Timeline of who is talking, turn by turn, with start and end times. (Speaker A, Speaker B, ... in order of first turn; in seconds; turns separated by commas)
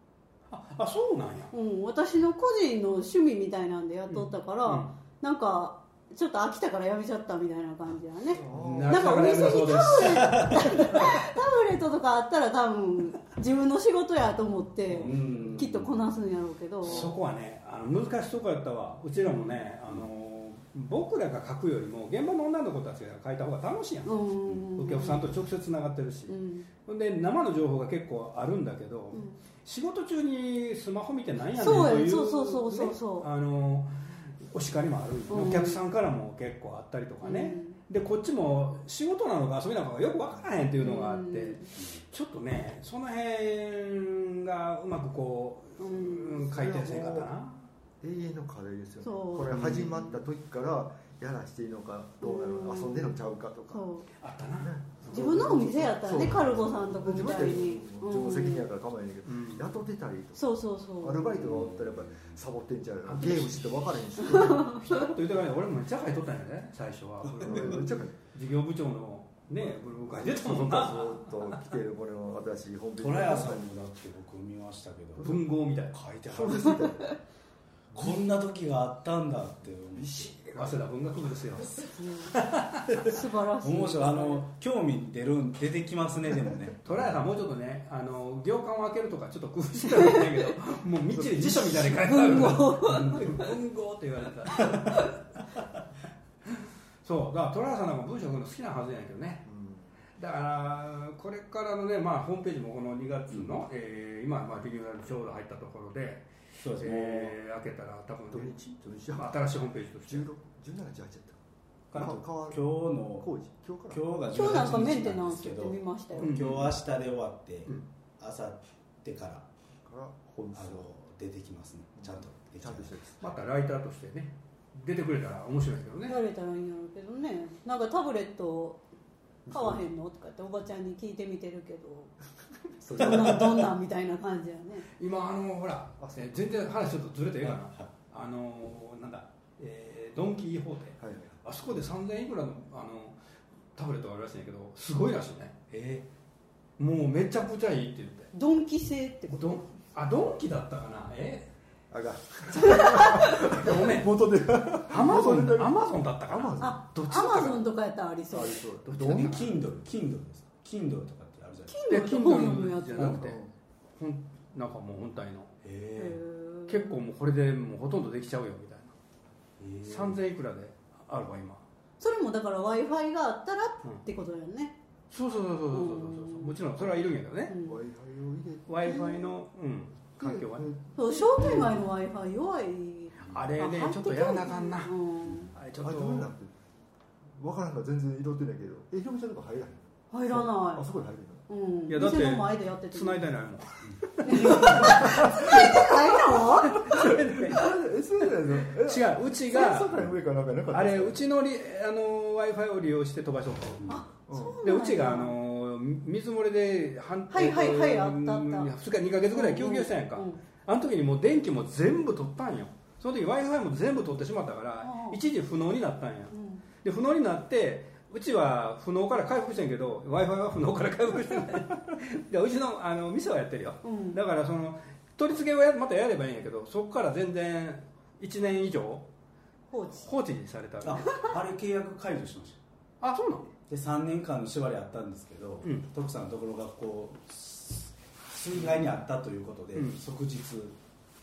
Speaker A: 0.5-1.5, Speaker B: 1.5-17.1, Speaker A: 4.1-4.9, Speaker C: 8.3-9.0, Speaker A: 8.5-11.2, Speaker D: 10.2-10.6, Speaker A: 14.9-15.1, Speaker D: 15.0-16.1, Speaker A: 16.8-24.2, Speaker B: 24.0-25.2, Speaker A: 24.8-47.6, Speaker B: 26.3-26.7, Speaker B: 29.1-29.4, Speaker B: 31.5-33.3, Speaker B: 35.3-35.8, Speaker B: 37.2-37.8, Speaker B: 40.8-41.7, Speaker B: 45.8-46.4, Speaker C: 46.4-47.3, Speaker C: 48.0-53.8, Speaker B: 49.0-49.8, Speaker A: 49.5-50.2, Speaker B: 52.2-53.2, Speaker B: 53.7-54.1, Speaker A: 54.2-55.4, Speaker C: 54.6-60.4, Speaker B: 55.1-58.7, Speaker A: 59.2-59.8, Speaker B: 60.3-61.4, Speaker C: 61.0-64.8, Speaker D: 61.3-62.4, Speaker A: 63.0-71.7, Speaker B: 64.2-64.8, Speaker C: 67.4-68.2, Speaker D: 67.4-67.8, Speaker C: 69.5-73.7, Speaker D: 73.0-76.9, Speaker A: 75.2-76.0, Speaker C: 76.3-77.1, Speaker D: 77.9-80.8, Speaker C: 80.0-80.5, Speaker A: 80.4-83.0, Speaker B: 81.9-82.4, Speaker D: 82.9-87.2, Speaker B: 83.0-84.4, Speaker A: 86.8-95.2, Speaker B: 89.9-90.2, Speaker B: 92.0-93.2, Speaker D: 92.9-93.5, Speaker A: 97.0-99.5, Speaker C: 99.5-99.9, Speaker A: 100.2-108.6, Speaker D: 103.3-103.6, Speaker D: 106.6-107.3, Speaker C: 108.3-109.4, Speaker A: 109.1-110.3, Speaker C: 110.0-111.4, Speaker C: 111.9-114.0, Speaker D: 112.0-113.3, Speaker D: 113.9-119.5, Speaker B: 114.3-116.4, Speaker A: 116.2-116.8, Speaker C: 119.8-120.9, Speaker D: 120.5-123.0, Speaker C: 122.0-123.4, Speaker A: 123.2-126.2, Speaker B: 126.1-128.8, Speaker C: 129.4-129.8, Speaker B: 129.5-132.1, Speaker C: 132.8-133.6, Speaker B: 132.9-134.8, Speaker D: 133.0-133.6, Speaker A: 135.0-143.2, Speaker C: 136.0-136.5, Speaker D: 137.4-137.8, Speaker C: 141.0-141.3, Speaker A: 143.8-145.7, Speaker D: 145.7-146.0, Speaker A: 146.8-148.3, Speaker B: 148.3-149.6, Speaker A: 149.3-151.5, Speaker C: 151.9-156.8, Speaker B: 152.6-153.4, Speaker A: 152.9-154.1, Speaker A: 154.9-157.7, Speaker B: 156.6-158.6, Speaker C: 158.3-159.5, Speaker A: 158.8-159.6, Speaker D: 159.0-161.8, Speaker B: 161.7-163.3, Speaker A: 161.9-163.4, Speaker C: 163.1-163.5, Speaker A: 164.0-165.5, Speaker D: 165.6-166.2, Speaker B: 165.9-167.0, Speaker A: 166.7-168.9, Speaker D: 169.6-170.2, Speaker A: 169.8-171.6, Speaker B: 172.0-174.8, Speaker A: 175.1-177.5, Speaker B: 175.7-176.6, Speaker B: 177.5-177.8, Speaker C: 177.6-179.3, Speaker A: 178.7-180.7, Speaker C: 180.2-181.8, Speaker B: 180.9-185.5, Speaker A: 183.3-184.9, Speaker A: 185.5-186.3, Speaker C: 185.8-186.5, Speaker C: 187.3-191.4, Speaker B: 190.1-190.8, Speaker B: 191.5-193.2, Speaker A: 191.9-197.7, Speaker B: 194.2-197.1, Speaker C: 194.6-195.6, Speaker C: 196.8-201.2, Speaker A: 198.5-200.1, Speaker A: 200.7-203.9, Speaker B: 203.9-205.3, Speaker C: 204.3-204.6, Speaker A: 204.6-229.1, Speaker B: 207.3-208.7, Speaker B: 209.3-210.4, Speaker B: 214.8-215.2, Speaker B: 216.3-216.6, Speaker B: 223.8-224.2, Speaker B: 229.7-230.1, Speaker A: 229.9-231.2, Speaker D: 230.8-232.6, Speaker A: 233.0-233.5, Speaker D: 233.7-240.8, Speaker A: 235.6-235.9, Speaker A: 239.7-240.0